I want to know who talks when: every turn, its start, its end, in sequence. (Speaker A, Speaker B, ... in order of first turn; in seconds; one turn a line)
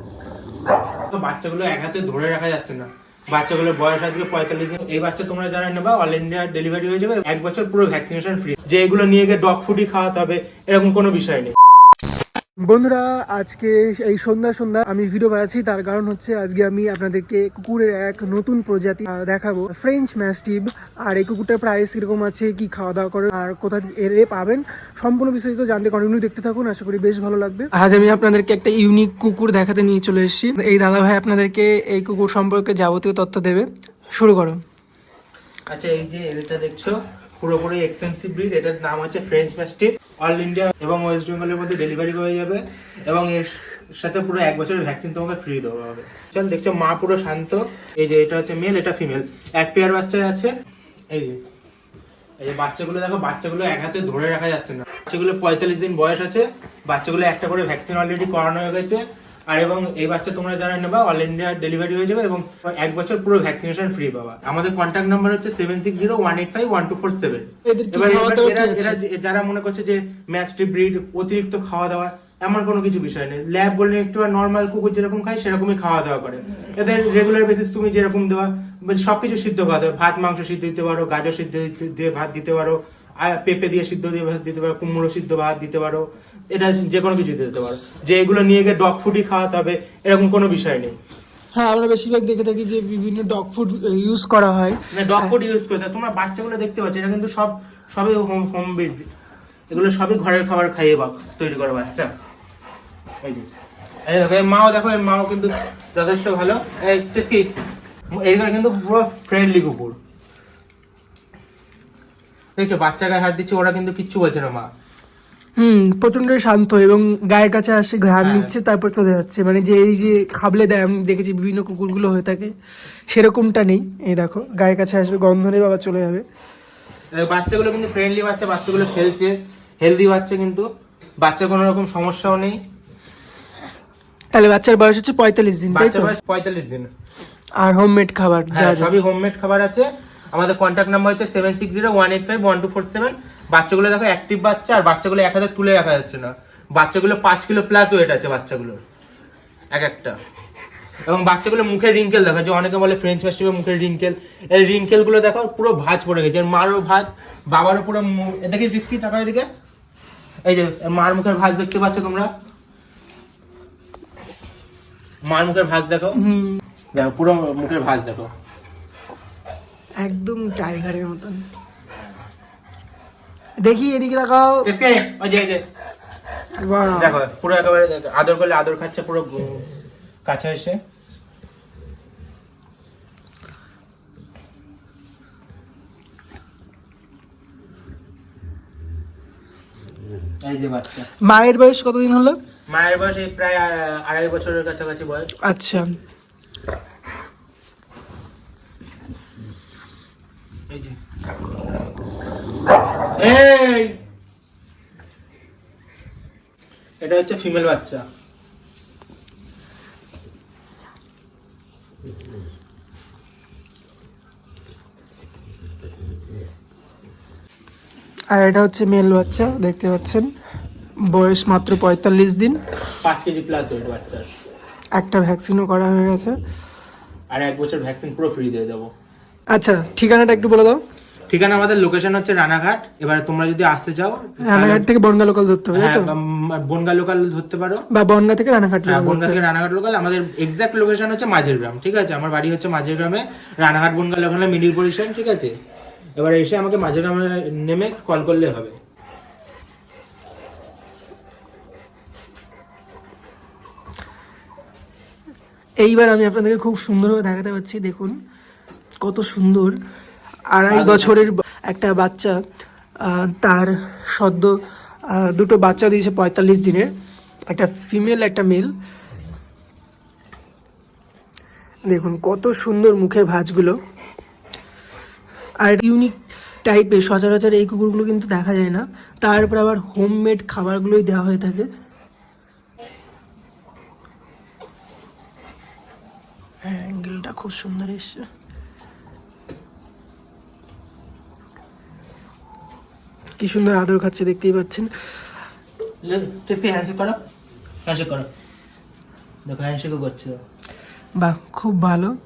Speaker A: 1.1-11.5
Speaker B: 12.6-34.6
Speaker A: 35.7-50.5
Speaker A: 51.1-51.4
Speaker A: 52.4-91.0
Speaker B: 67.7-69.0
Speaker B: 91.5-95.3
Speaker A: 94.9-99.1
Speaker A: 99.7-102.1
Speaker A: 103.2-103.5
Speaker A: 104.0-107.5
Speaker A: 108.1-110.0
Speaker A: 112.6-114.7
Speaker B: 115.6-122.5
Speaker A: 118.2-118.5
Speaker B: 123.1-126.2
Speaker A: 127.1-130.7
Speaker A: 131.2-132.6
Speaker B: 134.3-136.1
Speaker A: 135.7-136.9
Speaker B: 137.6-138.9
Speaker A: 138.5-148.8
Speaker A: 149.7-150.2
Speaker A: 151.0-159.5
Speaker A: 160.4-162.3
Speaker A: 165.2-166.2
Speaker B: 166.2-166.6
Speaker A: 166.9-168.3
Speaker B: 170.0-171.4
Speaker B: 173.6-174.7
Speaker A: 174.6-175.6
Speaker B: 176.6-177.2
Speaker A: 176.9-179.7
Speaker A: 180.2-180.8
Speaker A: 190.4-191.1
Speaker B: 191.2-192.4
Speaker A: 192.7-195.3
Speaker B: 195.5-195.9
Speaker A: 200.7-201.0
Speaker A: 203.2-204.0
Speaker A: 207.0-208.0
Speaker B: 218.3-220.3
Speaker B: 221.1-222.6
Speaker A: 223.0-224.3
Speaker B: 224.9-226.3
Speaker A: 227.3-228.9
Speaker B: 229.5-230.8
Speaker A: 231.3-234.8
Speaker B: 234.4-236.1
Speaker A: 235.7-237.8
Speaker B: 237.9-239.4
Speaker A: 238.8-245.6
Speaker A: 246.2-248.8
Speaker B: 255.8-258.1
Speaker B: 259.0-259.7
Speaker B: 260.5-262.4
Speaker A: 260.7-261.2
Speaker B: 263.0-264.5
Speaker B: 265.1-266.9
Speaker B: 267.5-268.7
Speaker B: 271.9-273.8
Speaker B: 275.6-281.7
Speaker B: 286.6-288.2
Speaker B: 293.4-294.9
Speaker A: 296.0-297.2
Speaker A: 297.9-298.3
Speaker A: 299.4-300.4
Speaker B: 301.2-302.1